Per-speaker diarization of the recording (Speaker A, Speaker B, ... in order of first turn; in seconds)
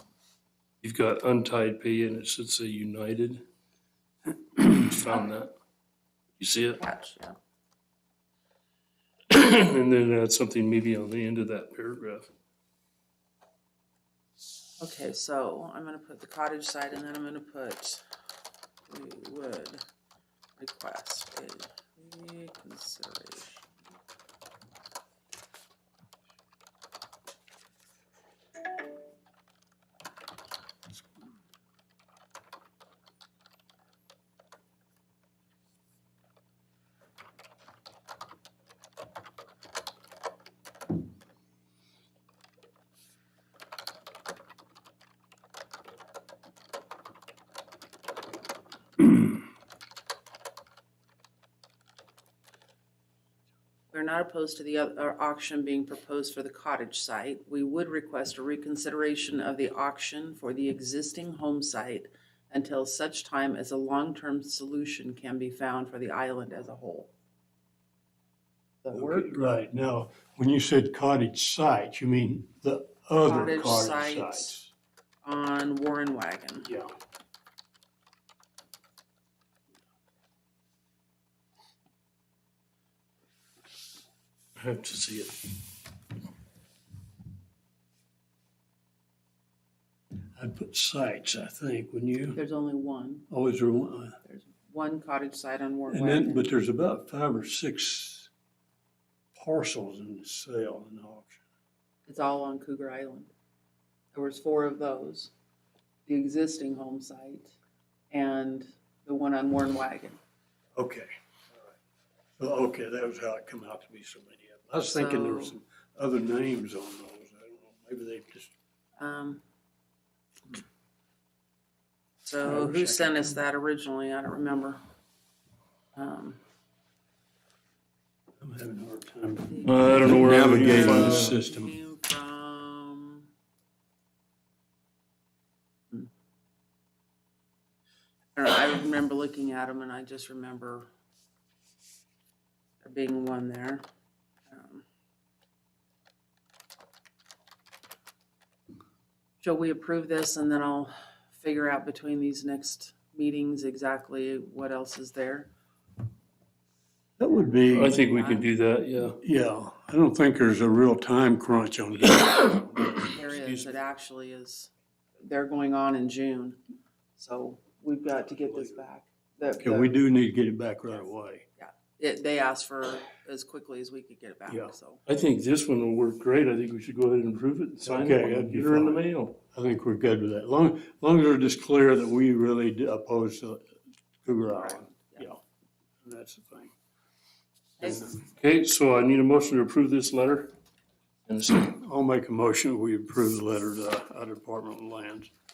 Speaker A: 0.8-3.4, 4.5-5.5, 6.4-6.8, 9.3-12.3, 84.6-85.5, 129.7-131.4, 157.7-159.2, 162.0-163.8, 175.1-179.4, 188.2-190.5, 191.3-191.7
Speaker B: 6.8-7.3, 14.8-18.0, 18.9-19.8, 20.6-23.7, 53.9-67.1, 68.8-69.3, 73.2-74.6, 75.2-76.7, 92.3-93.3, 94.2-96.5, 102.1-103.3, 104.1-105.3, 106.1-107.5, 108.1-110.2, 114.8-115.6, 119.0-119.4, 122.2-124.8, 126.0-126.4, 129.5-133.3, 138.4-140.9, 142.8-143.8, 144.5-144.8, 149.4-155.5, 157.8-158.5, 163.0-166.6, 167.2-169.9, 171.6-175.0, 184.6-185.2, 187.8-188.2
Speaker C: 68.9-74.7, 76.7-76.9, 90.3-92.4, 93.3-94.2, 95.9-98.3, 99.3-101.4, 110.8-111.1, 112.4-118.5, 122.4-123.1, 128.4-131.8, 157.2-158.0, 159.2-162.6, 169.6-171.5, 177.8-183.7, 184.2-185.4, 186.0-186.7, 191.7-195.3